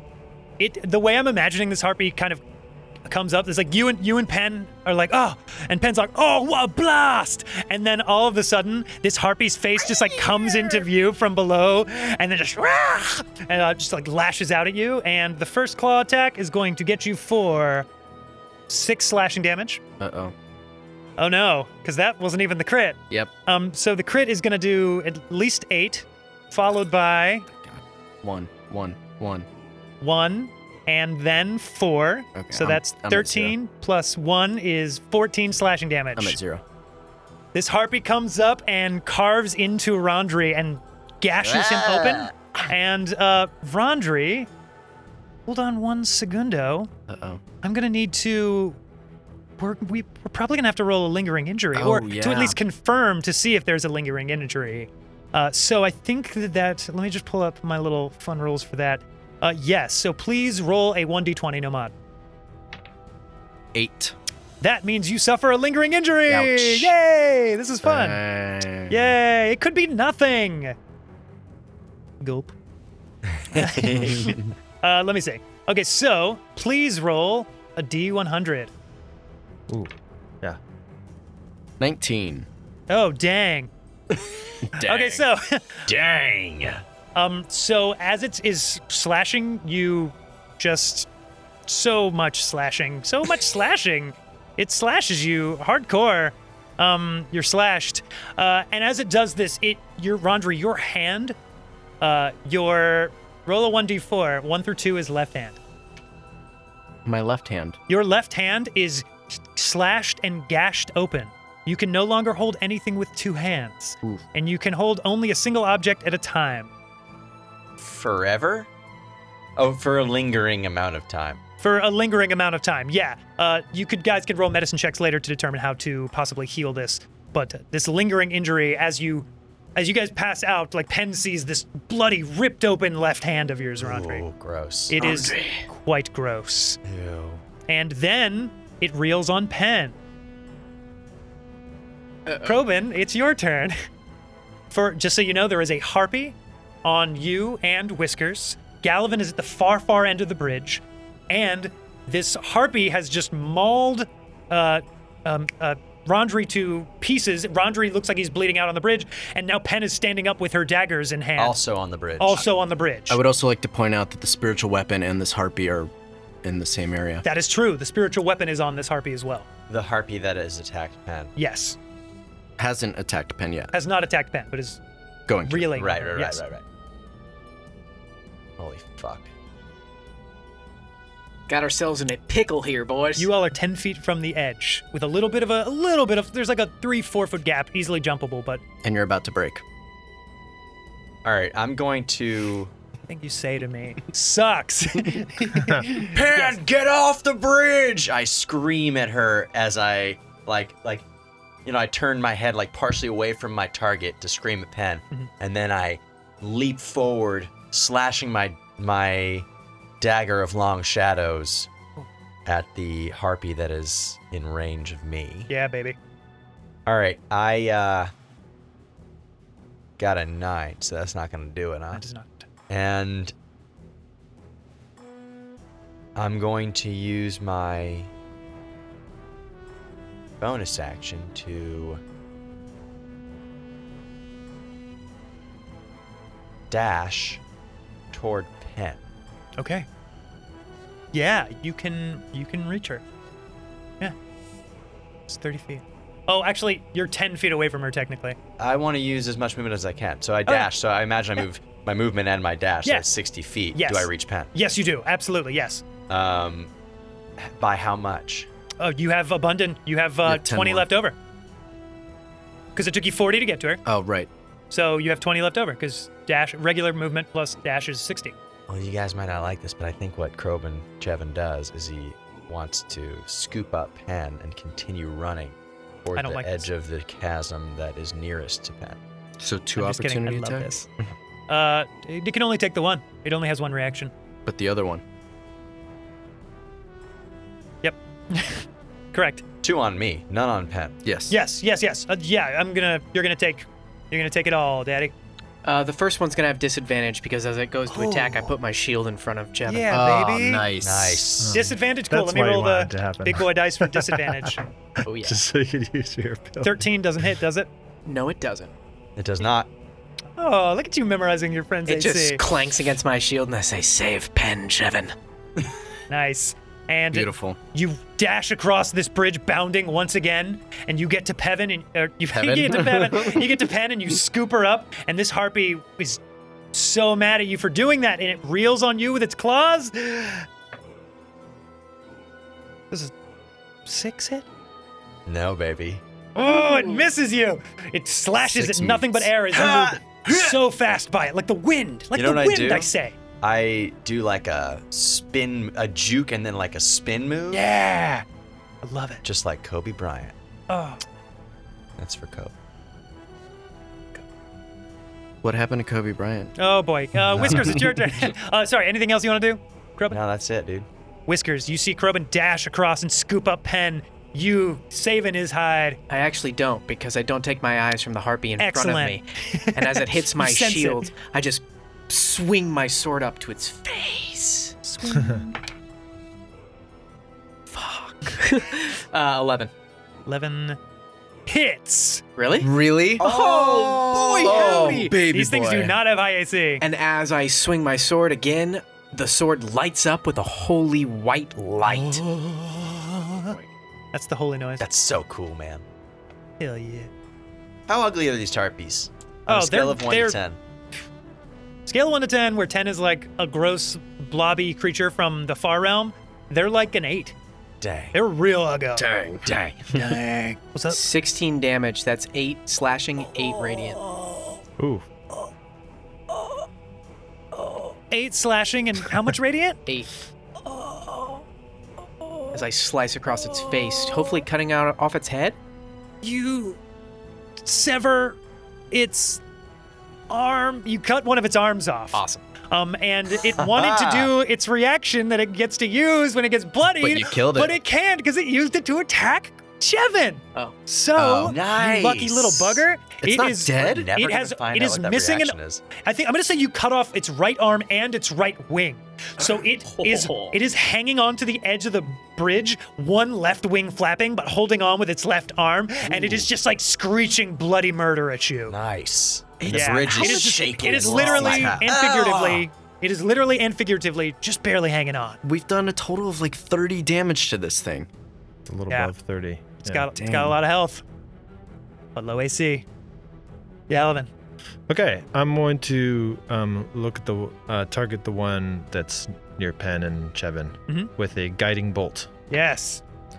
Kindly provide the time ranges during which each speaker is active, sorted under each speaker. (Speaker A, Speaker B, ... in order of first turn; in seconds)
Speaker A: 0.6-2.4, 3.1-17.9, 18.7-19.8, 21.2-27.5, 30.0-36.4, 37.5-44.5, 45.5-46.9, 47.6-48.8, 49.6-61.9, 64.6-68.2, 68.9-70.8, 72.2-72.5, 73.5-78.7, 82.9-83.7, 84.8-85.9, 87.1-91.1, 91.7-101.4, 102.0-105.6, 107.9-116.7, 121.6-134.2, 134.9-136.8, 137.7-139.9, 142.4-143.7, 144.7-161.6, 162.2-163.2, 167.2-169.4, 171.3-171.8, 173.7-174.8, 175.4-176.4, 183.2-188.6, 193.1-196.6, 215.5-216.0, 221.9-222.5, 239.6-239.9, 241.1-243.0, 245.3-248.4, 253.7-255.8, 258.8-261.2, 262.7-263.8, 264.7-268.4, 276.1-276.7, 279.8-280.9, 281.5-284.1, 287.8-289.4, 291.3-295.1, 297.9-298.5, 299.7-300.6, 301.5-304.6, 306.6-307.7, 310.4-312.4, 316.1-326.2, 326.7-330.4, 333.9-334.4, 336.4-343.2, 347.5-348.2, 348.8-349.2, 350.7-351.0, 356.6-360.2, 361.3-366.0, 368.6-371.1, 374.8-375.6, 380.2-380.8, 381.5-382.2, 384.4-386.8, 392.7-393.6, 394.1-394.8, 396.6-397.1, 399.5-400.4, 401.9-407.3, 408.1-409.1, 409.9-411.0, 417.5-419.8, 426.2-426.8, 427.6-428.4, 428.9-429.4, 430.3-458.8, 459.6-465.4, 469.8-471.0, 472.1-472.9, 473.9-474.3, 482.5-483.0
Speaker B: 10.5-10.8, 20.0-20.3, 27.6-29.5, 32.4-33.5, 36.1-36.6, 41.4-42.3, 47.1-47.4, 51.7-52.6, 63.7-64.1, 66.3-66.9, 67.8-69.0, 81.8-82.5, 84.6-85.2, 107.0-107.8, 163.1-165.9, 166.4-167.2, 172.6-173.7, 175.3-175.7, 188.8-189.6, 260.2-260.9, 263.8-264.3, 279.4-280.7, 284.4-285.0, 291.0-291.3, 299.9-301.3, 317.1-317.6, 322.3-323.5, 338.4-339.8, 355.4-356.5, 357.4-358.0, 382.6-385.9, 409.0-409.4, 437.0-437.8, 441.1-441.6, 443.2-444.1, 459.6-462.5, 465.4-468.1, 470.2-470.6
Speaker C: 73.3-74.5, 85.9-86.8, 117.8-118.7, 119.6-121.4, 133.8-135.0, 136.8-137.4, 161.4-162.4, 169.7-171.3, 175.7-176.6, 178.6-179.3, 191.2-192.7, 195.9-201.1, 201.6-209.4, 210.0-211.7, 212.4-215.5, 216.8-218.1, 220.0-222.0, 222.7-223.3, 226.2-228.1, 230.4-232.0, 236.7-237.4, 238.1-239.0, 248.6-254.5, 256.1-256.7, 257.4-258.5, 268.7-279.0, 289.6-290.9, 300.8-301.5, 309.2-309.7, 335.2-336.0, 342.1-342.9, 343.4-347.6, 349.2-350.3, 352.0-352.5, 360.1-360.9, 394.8-395.8, 397.9-400.6, 407.8-408.1, 409.4-410.0, 433.6-434.3, 441.4-442.8, 443.7-445.8, 458.7-462.6
Speaker D: 79.7-80.6, 301.4-306.9, 375.1-375.4, 414.8-415.1, 468.6-470.1, 474.9-482.3
Speaker E: 135.0-135.6, 142.2-142.6, 181.5-183.3, 295.6-299.9, 305.0-305.4, 308.1-308.7, 311.9-315.1, 366.1-374.7, 377.7-379.7, 382.4-385.1, 386.8-392.3, 410.9-414.0, 422.5-425.6, 432.1-432.4, 449.4-450.6